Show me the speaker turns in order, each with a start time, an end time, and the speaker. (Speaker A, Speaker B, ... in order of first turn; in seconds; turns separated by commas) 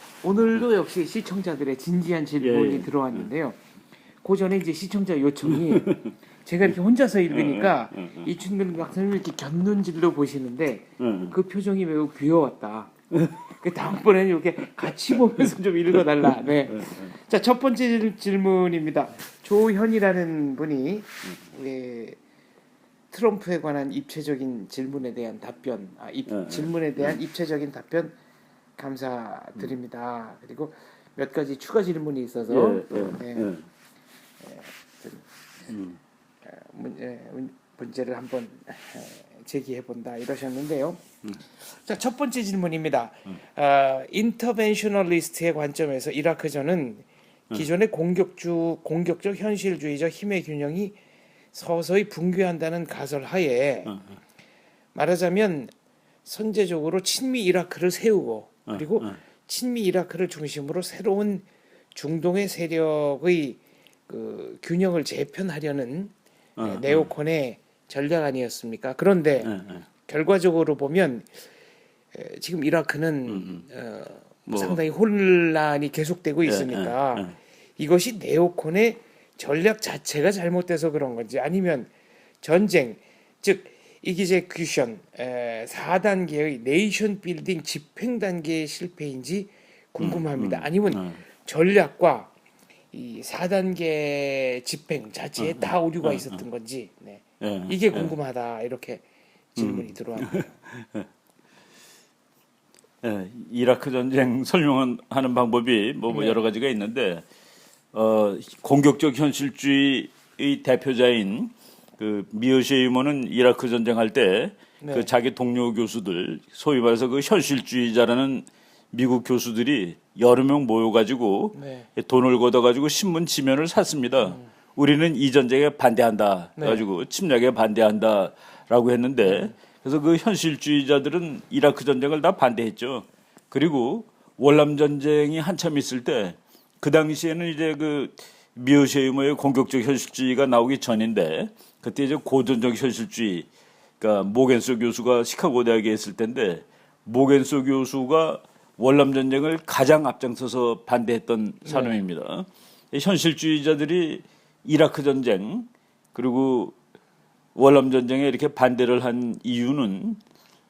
Speaker A: 0.2-3.6, Speaker B: 2.4-3.3, Speaker A: 4.2-12.9, Speaker B: 5.5-6.1, Speaker B: 7.3-8.3, Speaker B: 11.0-11.3, Speaker B: 13.1-13.4, Speaker A: 13.5-22.2, Speaker B: 14.8-15.5, Speaker B: 16.8-17.1, Speaker A: 23.1-28.2, Speaker B: 26.3-27.2, Speaker A: 28.8-33.5, Speaker B: 32.5-33.6, Speaker A: 34.4-35.2, Speaker B: 35.7-36.0, Speaker A: 36.5-41.0, Speaker A: 41.7-51.0, Speaker A: 51.5-54.0, Speaker A: 54.9-55.7, Speaker A: 56.2-69.5, Speaker B: 58.7-59.2, Speaker B: 66.6-67.1, Speaker B: 69.4-69.8, Speaker A: 70.0-71.3, Speaker A: 72.1-92.3, Speaker B: 73.3-73.6, Speaker B: 74.5-74.8, Speaker B: 76.5-77.4, Speaker B: 90.0-91.2, Speaker A: 92.9-99.0, Speaker B: 95.4-96.4, Speaker B: 97.4-98.2, Speaker A: 99.6-100.5, Speaker B: 99.6-101.1, Speaker B: 103.0-107.2, Speaker A: 106.1-106.4, Speaker B: 107.9-143.5, Speaker A: 114.8-115.1, Speaker A: 121.5-121.9, Speaker A: 126.6-126.8, Speaker A: 129.3-129.5, Speaker B: 144.0-156.8, Speaker A: 151.7-152.0, Speaker B: 157.6-160.2